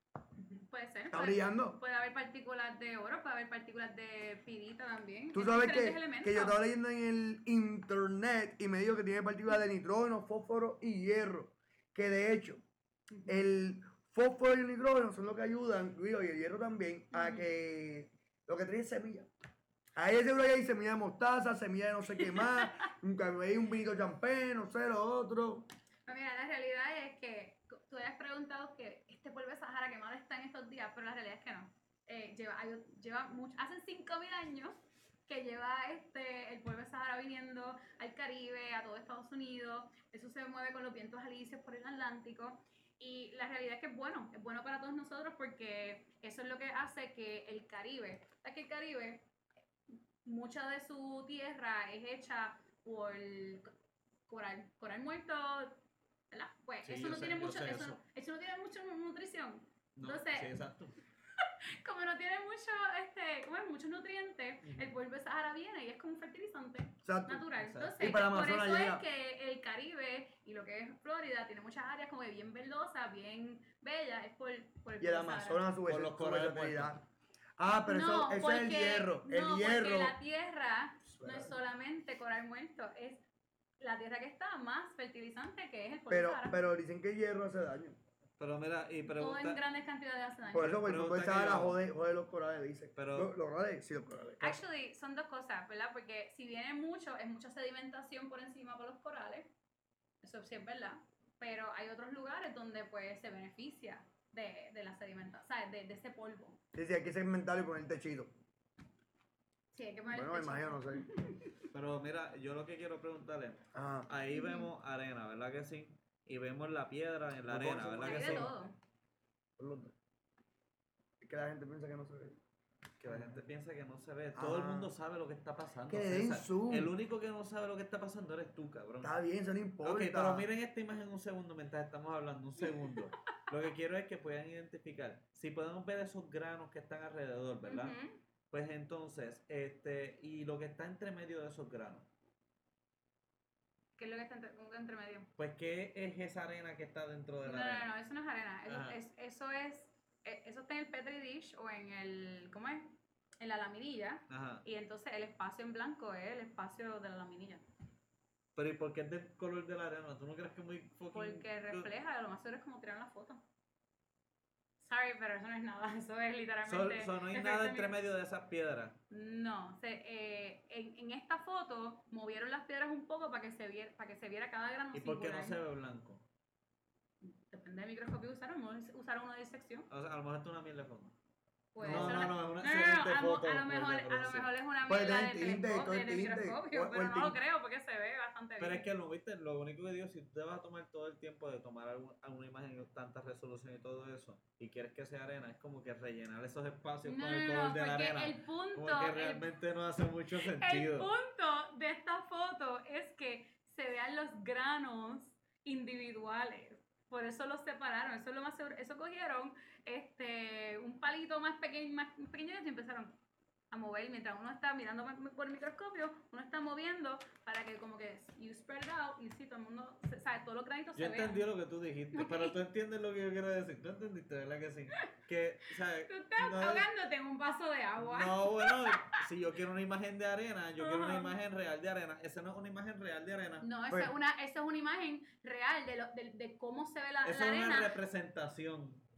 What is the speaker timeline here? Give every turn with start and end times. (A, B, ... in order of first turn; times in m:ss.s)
0:00.4-0:06.6 A
0:01.1-0:01.8 B
0:05.3-0:12.6 B
0:13.2-0:19.3 B
0:17.1-0:17.4 A
0:20.0-0:25.7 B
0:22.2-0:22.6 A
0:26.1-0:34.8 A
0:35.3-0:49.2 A
0:50.2-0:53.7 A
0:54.3-0:55.8 A
0:56.3-1:00.5 A
0:56.8-0:58.0 C
1:00.0-1:01.0 C
1:01.4-1:15.6 A
1:04.6-1:04.9 C
1:07.0-1:07.5 B
1:07.6-1:08.0 C
1:08.0-1:09.0 B
1:15.0-1:17.0 B
1:15.9-1:17.0 C
1:17.6-1:20.2 B
1:17.9-1:23.2 A
1:21.1-1:21.5 B
1:23.8-1:26.6 A
1:26.1-1:28.0 B
1:28.4-1:29.6 C
1:29.1-1:30.7 A
1:30.5-1:34.6 B
1:30.5-1:31.8 C
1:33.0-1:33.3 C
1:34.4-1:39.5 A
1:40.2-1:46.6 A
1:46.7-1:48.3 B
1:49.7-1:51.6 A
1:50.1-1:51.1 B
1:51.7-1:58.5 C
1:53.7-1:54.1 B
1:54.3-1:54.7 A
1:57.5-1:58.5 B
1:58.0-1:58.8 A
1:59.6-1:59.9 B
2:01.2-2:02.4 B
2:03.0-2:09.1 C
2:03.1-2:03.4 B
2:04.4-2:04.9 B
2:05.9-2:06.9 B
2:09.0-2:10.5 B
2:09.8-2:18.0 C
2:17.6-2:18.2 A
2:18.5-2:22.1 C
2:24.0-2:25.3 A
2:25.4-2:27.9 C
2:27.4-2:37.6 A
2:28.7-2:29.0 C
2:34.3-2:34.6 C
2:38.6-2:41.9 C
2:41.1-2:43.4 A
2:44.8-2:47.9 A
2:46.6-2:49.0 C
2:49.1-2:55.6 A
2:54.9-2:56.2 C
2:57.2-2:59.9 A
2:59.9-3:01.1 C
3:01.7-3:08.9 A
3:01.8-3:02.4 B
3:01.8-3:04.5 C
3:04.9-3:07.4 B
3:08.6-3:21.1 C
3:17.0-3:19.5 A
3:20.4-3:33.1 A
3:33.7-3:41.4 A
3:41.0-3:46.9 C
3:42.1-3:42.6 A
3:46.1-3:49.2 A
3:48.0-3:53.7 C
3:50.8-3:51.4 A
3:53.6-3:57.9 A
3:57.2-3:59.0 C